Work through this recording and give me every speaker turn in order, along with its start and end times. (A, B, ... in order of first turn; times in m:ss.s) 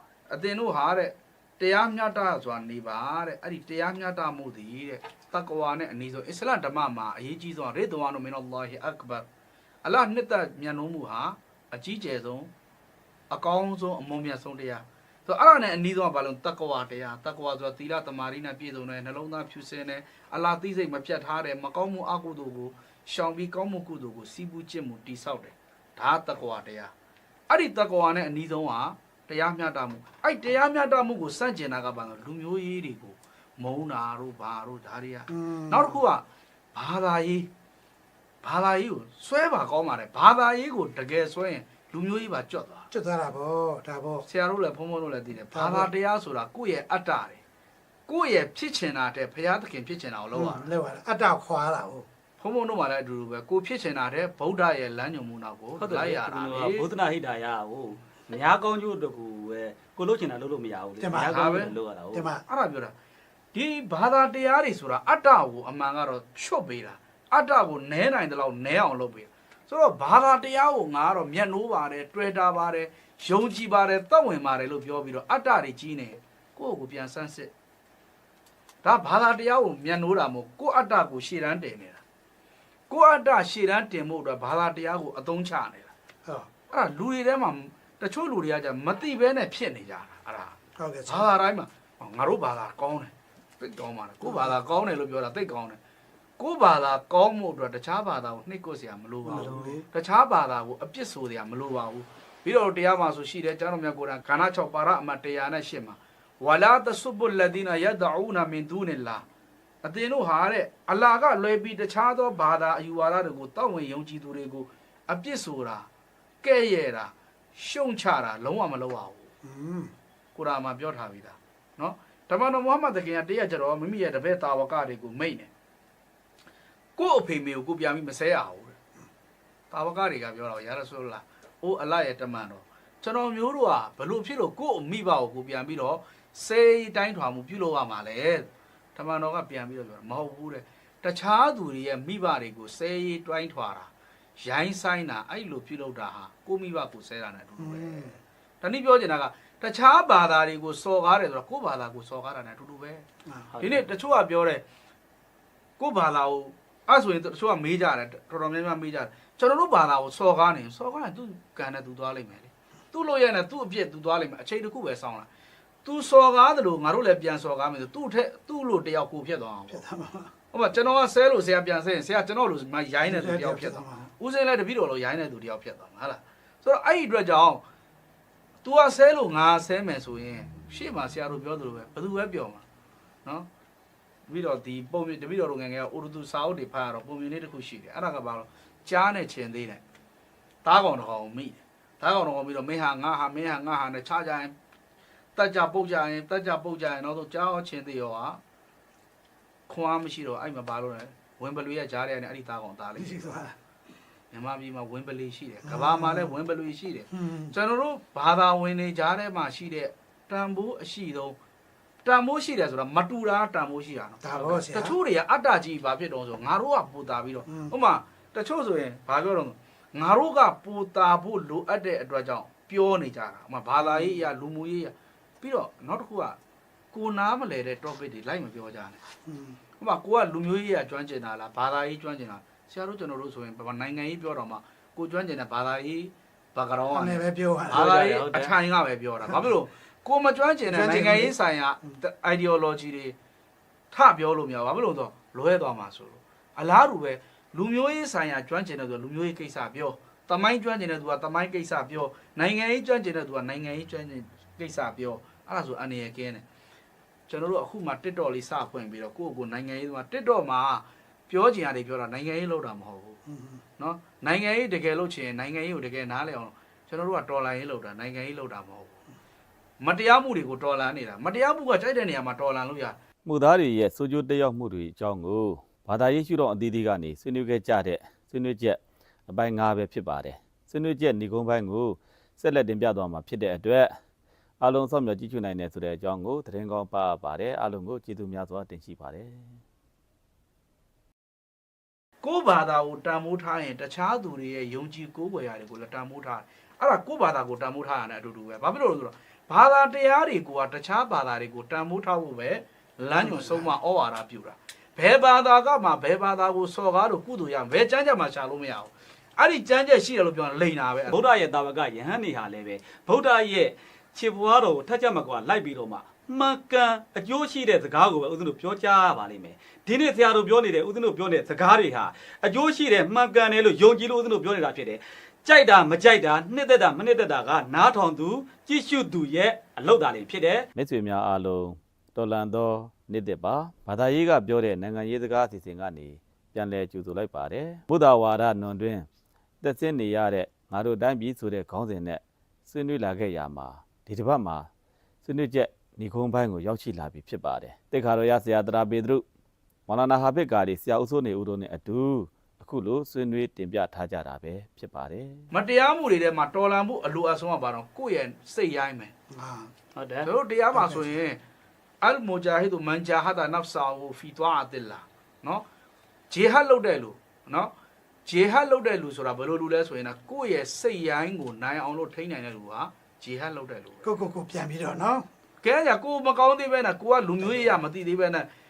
0:00.3-0:09.3 A
0:09.8-0:12.5 A
0:13.3-0:26.9 A
0:27.5-0:37.5 A
0:35.3-0:36.0 B
0:38.4-0:42.9 A
0:42.9-0:44.2 B
0:44.3-0:47.4 A
0:45.5-0:45.9 B
0:48.1-0:50.7 A
0:50.3-0:52.1 B
0:52.4-0:56.9 A
0:55.8-1:02.3 C
1:01.0-1:01.6 B
1:01.2-1:01.7 A
1:02.1-1:02.4 B
1:02.5-1:02.9 A
1:03.5-1:17.5 A
1:18.8-1:22.0 A
1:22.9-1:25.9 A
1:26.7-1:30.6 A
1:30.8-1:31.3 B
1:31.1-1:35.8 A
1:34.3-1:34.5 B
1:36.4-1:49.2 A
1:39.3-1:39.8 B
1:49.8-1:55.9 A
1:56.4-1:59.3 A
1:59.4-1:59.9 B
2:00.4-2:05.5 A
2:07.0-2:08.8 A
2:09.7-2:33.0 A
2:27.6-2:28.1 B
2:33.5-2:33.9 C
2:33.6-2:34.6 A
2:35.8-2:45.3 A
2:45.8-2:49.8 A
2:49.7-2:50.3 B
2:50.5-2:57.6 A
2:53.1-2:54.1 B
2:58.6-3:02.6 A
3:04.3-3:09.8 A
3:10.6-3:14.5 A
3:15.4-3:18.4 A
3:19.7-3:23.4 A
3:23.0-3:23.6 B
3:24.3-3:31.4 A
3:25.7-3:26.3 B
3:27.1-3:27.5 B
3:32.0-3:46.4 A
3:34.2-3:35.0 B
3:37.5-3:37.7 B
3:43.9-3:44.1 B
3:46.9-3:49.0 A
3:49.2-3:49.6 B
3:49.8-4:03.2 A
3:56.9-3:57.9 B
3:57.7-3:58.5 C
4:00.7-4:01.3 B
4:03.9-4:16.4 A
4:17.3-4:23.2 A
4:23.3-4:23.6 B
4:23.8-4:29.0 A
4:29.8-4:33.0 A
4:33.3-4:44.0 D
4:44.6-4:49.5 D
4:52.2-5:11.2 A
5:03.2-5:03.7 B
5:11.1-5:30.7 C
5:30.8-5:39.1 D
5:39.6-5:44.7 D
5:45.2-5:49.2 D
5:49.9-5:55.4 D
5:55.5-5:59.1 A
5:59.3-5:59.7 B
6:00.0-6:00.3 C
6:00.2-6:01.4 A
6:00.7-6:01.1 B
6:02.0-6:05.6 A
6:06.3-6:07.7 A
6:08.3-6:14.0 A
6:14.0-6:15.3 B
6:15.6-6:18.5 A